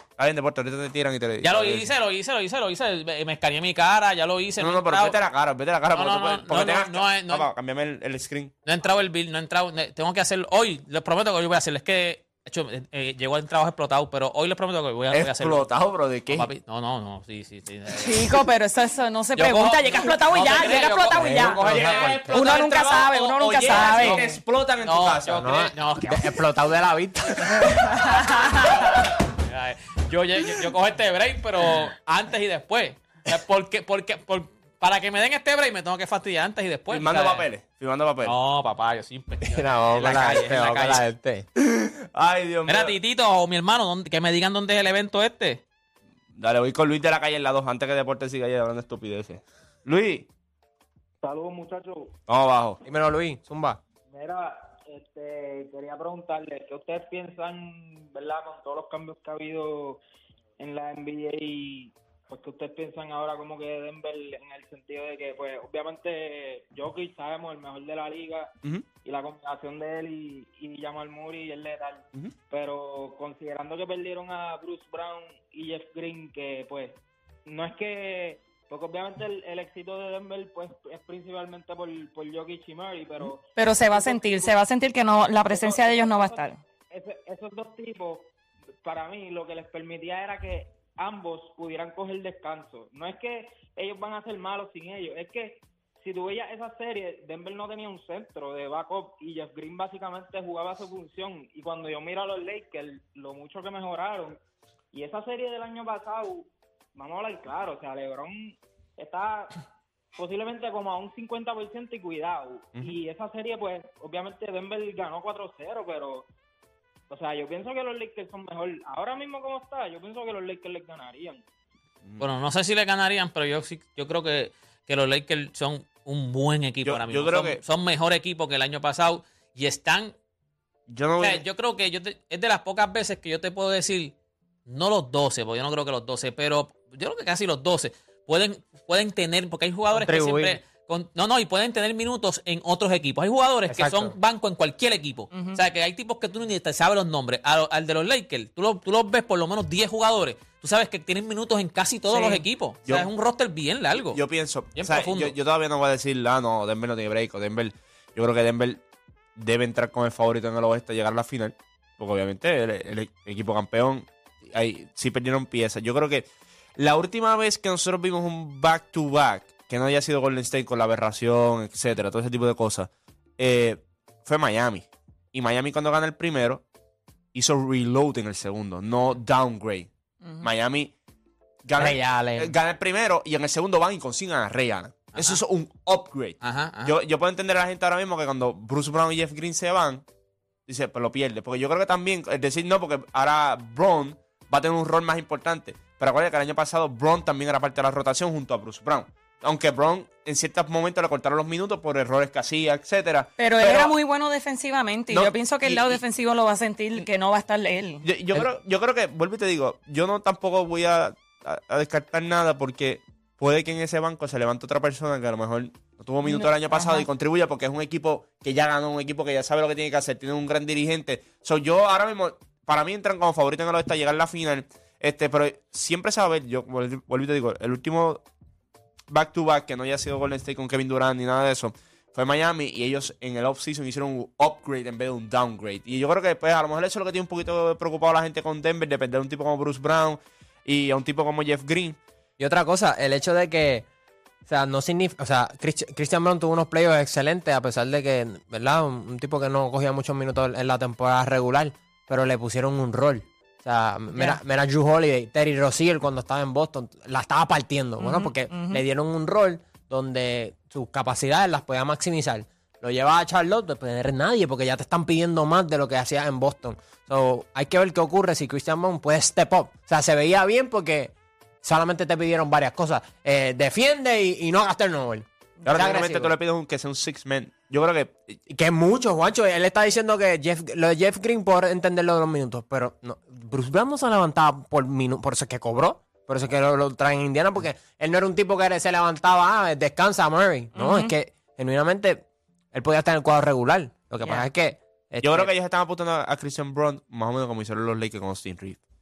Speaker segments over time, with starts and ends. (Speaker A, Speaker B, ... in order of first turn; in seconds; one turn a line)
Speaker A: 0.2-1.9
Speaker B: 1.4-5.2
Speaker A: 4.6-8.5
Speaker B: 5.9-7.5
Speaker B: 8.6-15.7
Speaker A: 15.1-16.5
Speaker B: 16.3-18.3
Speaker C: 18.0-21.6
Speaker B: 19.4-22.5
Speaker D: 21.2-22.4
Speaker A: 21.4-25.4
Speaker C: 22.3-24.4
Speaker B: 23.7-24.2
Speaker B: 24.8-26.4
Speaker D: 25.3-27.7
Speaker B: 27.8-37.5
Speaker C: 28.4-28.7
Speaker A: 36.9-38.4
Speaker B: 38.2-41.0
Speaker D: 39.5-41.5
Speaker A: 41.6-43.0
Speaker B: 42.7-45.6
Speaker A: 46.4-50.3
Speaker E: 51.2-52.1
Speaker A: 52.3-52.8
Speaker D: 52.8-53.8
Speaker E: 54.1-60.0
Speaker E: 60.6-84.6
Speaker C: 83.5-86.6
Speaker E: 85.5-88.3
Speaker E: 88.8-104.4
Speaker E: 104.9-109.6
Speaker E: 110.2-116.2
Speaker E: 117.1-121.4
Speaker B: 122.2-130.1
Speaker A: 126.8-127.6
Speaker A: 130.9-131.4
Speaker B: 131.2-134.1
Speaker B: 134.7-155.3
Speaker D: 139.9-140.6
Speaker D: 143.7-144.2
Speaker C: 145.3-145.6
Speaker A: 154.1-158.8
Speaker A: 159.3-166.2
Speaker A: 166.8-176.6
Speaker A: 177.3-179.9
Speaker A: 180.4-180.9
Speaker A: 181.6-190.0
Speaker D: 181.8-182.5
Speaker B: 185.1-185.4
Speaker B: 186.4-186.9
Speaker A: 190.7-203.9
Speaker C: 203.4-208.1
Speaker A: 205.1-206.0
Speaker A: 208.0-228.2
Speaker C: 216.2-217.1
Speaker A: 229.1-242.0
Speaker D: 242.4-243.8
Speaker D: 244.5-276.3
Speaker C: 254.1-254.4
Speaker C: 258.0-258.8
Speaker A: 275.6-278.4
Speaker D: 278.5-295.5
Speaker C: 290.7-291.1
Speaker C: 294.2-294.5
Speaker A: 295.2-298.8